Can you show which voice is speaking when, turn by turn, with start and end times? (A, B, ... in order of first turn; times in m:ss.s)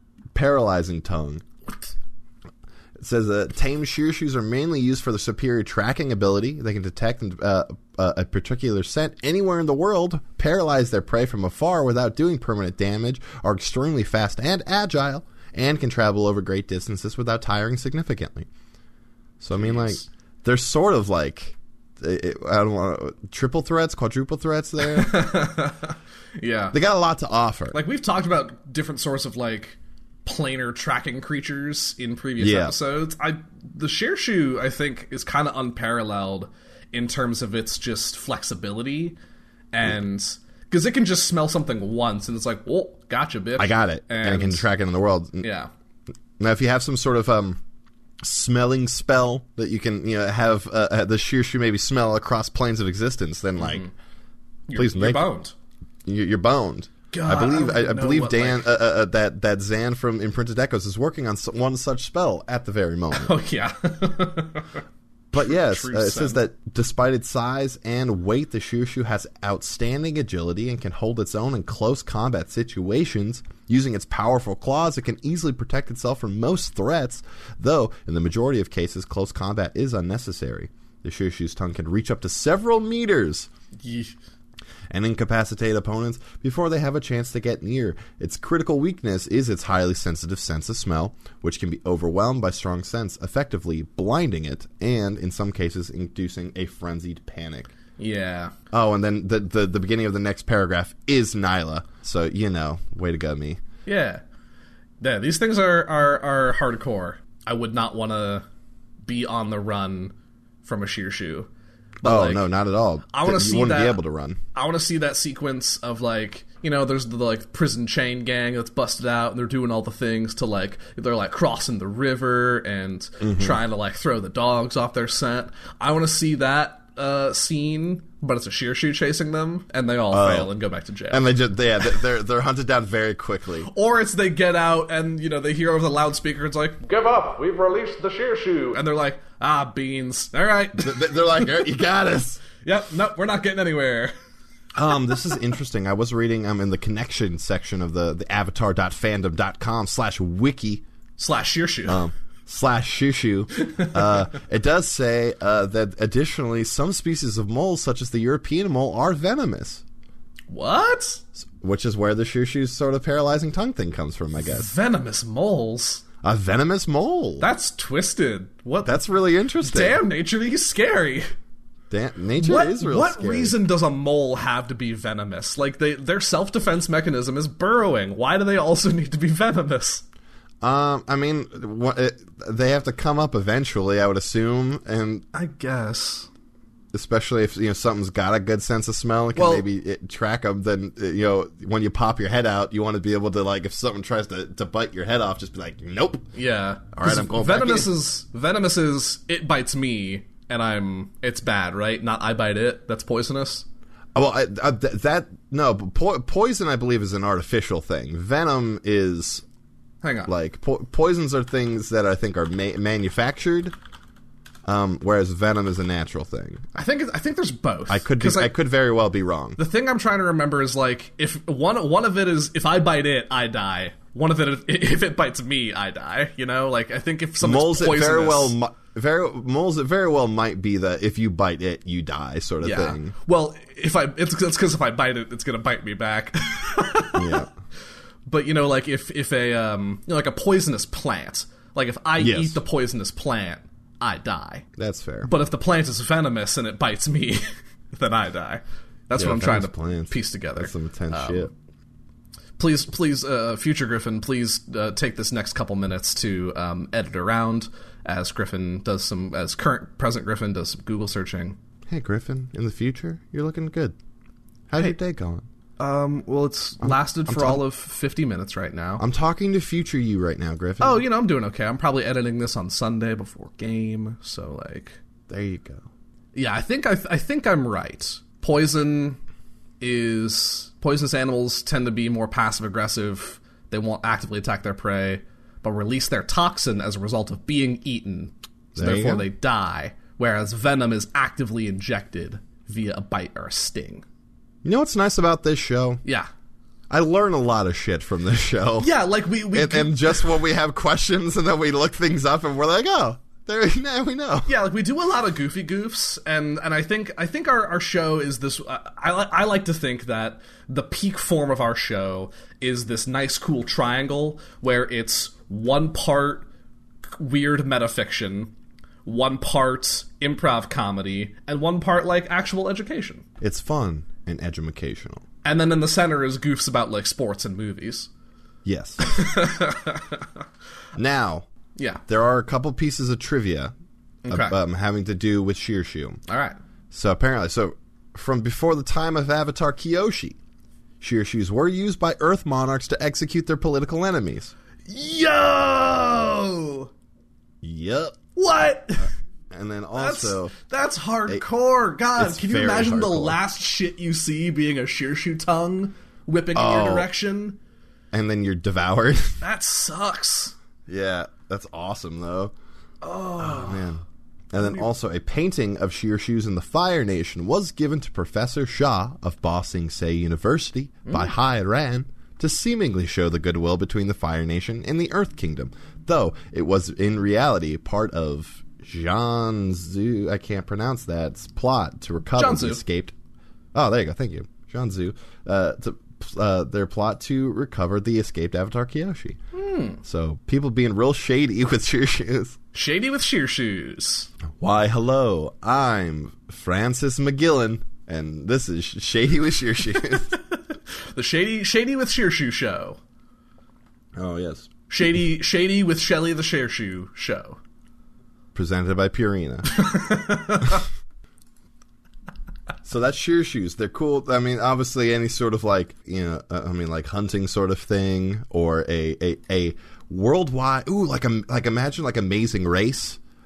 0:00.3-0:01.4 A
0:03.0-0:18.5 A
0:19.4-0:25.4 A
0:19.5-0:20.1 B
0:24.8-0:26.8 B
0:26.7-0:27.8 A
0:27.7-0:39.2 B
0:32.4-0:32.7 A
0:39.7-0:44.6 B
0:43.6-0:45.5 A
0:45.4-0:45.7 B
0:46.4-0:47.6 A
0:48.2-0:53.9 A
0:53.6-0:53.9 B
0:54.7-0:55.5 B
0:54.7-0:55.3 A
0:56.0-1:03.3 A
0:57.1-0:58.7 B
1:03.1-1:04.8 B
1:05.3-1:23.5 A
1:05.4-1:06.4 B
1:23.8-1:24.1 B
1:24.9-1:37.7 A
1:38.0-1:38.5 B
1:38.7-1:43.6 A
1:43.8-1:44.2 B
1:45.0-1:48.4 B
1:49.0-1:50.1 B
1:50.6-1:51.5 B
1:52.0-1:52.5 B
1:52.0-1:54.4 A
1:53.1-1:54.0 B
1:54.5-2:11.3 B
2:03.2-2:03.6 A
2:10.1-2:10.5 A
2:11.1-2:13.7 A
2:13.6-2:21.6 B
2:20.8-2:22.4 A
2:22.6-2:24.1 B
2:24.7-2:30.8 A
2:31.2-2:32.0 B
2:31.9-2:39.8 A
2:33.6-2:33.9 B
2:40.5-2:41.2 B
2:41.4-2:44.7 A
2:44.4-2:46.0 B
2:46.2-2:47.5 A
2:47.4-2:49.0 B
2:48.8-2:50.0 A
2:49.6-2:51.3 B
2:51.9-2:53.5 A
2:52.4-3:00.0 B
3:00.6-3:05.2 A
3:05.3-3:06.3 B
3:06.9-3:16.3 A
3:09.4-3:09.6 B
3:16.3-3:23.6 B
3:17.0-3:17.9 A
3:24.1-3:29.4 A
3:30.0-3:30.3 B
3:30.3-3:33.7 A
3:34.6-3:36.6 A
3:36.7-3:38.5 B
3:37.9-3:39.6 A
3:39.6-3:48.6 B
3:47.4-3:53.1 A
3:52.6-3:57.5 B
3:57.1-3:57.5 A
3:58.3-4:04.7 B
4:02.2-4:02.6 A
4:04.8-4:05.3 A
4:05.2-4:11.5 B
4:09.2-4:11.5 A
4:12.6-4:21.6 B
4:21.9-4:24.0 A
4:24.7-4:25.4 A
4:25.8-4:29.0 B
4:26.8-4:27.6 A
4:29.0-4:31.0 A
4:30.8-4:35.0 B
4:35.3-4:35.8 A
4:36.3-4:39.2 B
4:39.8-4:54.0 B
4:48.8-4:49.3 A
4:54.6-4:56.0 A
4:56.9-4:58.9 A
4:58.8-5:00.3 B
4:59.5-5:04.5 A
5:04.4-5:16.5 B
5:17.1-5:18.5 B
5:19.0-5:23.2 B
5:23.4-5:25.2 A
5:25.4-5:28.1 B
5:28.6-5:29.3 A
5:29.0-5:30.3 B
5:31.0-5:31.5 A
5:31.8-5:32.0 B
5:32.1-5:33.7 A
5:34.2-5:34.5 B
5:34.3-5:36.2 A
5:36.3-5:36.6 B
5:36.9-5:40.4 A
5:41.0-5:44.5 A
5:44.9-5:46.9 B
5:47.6-5:48.2 A
5:48.3-5:49.1 B
5:49.5-5:50.5 A
5:49.9-5:57.6 B
5:52.2-5:53.4 A
5:56.5-5:57.1 A
5:58.1-5:59.4 A
5:59.4-6:00.5 B
6:00.9-6:02.5 A
6:03.0-6:03.9 B
6:03.4-6:23.1 A
6:11.0-6:11.3 B
6:22.4-6:22.8 B
6:23.7-6:29.4 A
6:29.5-6:30.0 B
6:30.0-6:32.6 A
6:32.7-6:34.3 B
6:34.6-6:40.3 A
6:40.1-6:43.0 B
6:44.2-6:44.7 A
6:44.9-6:47.6 B
6:48.5-6:49.8 A
6:49.7-6:50.8 B
6:52.8-7:03.2 A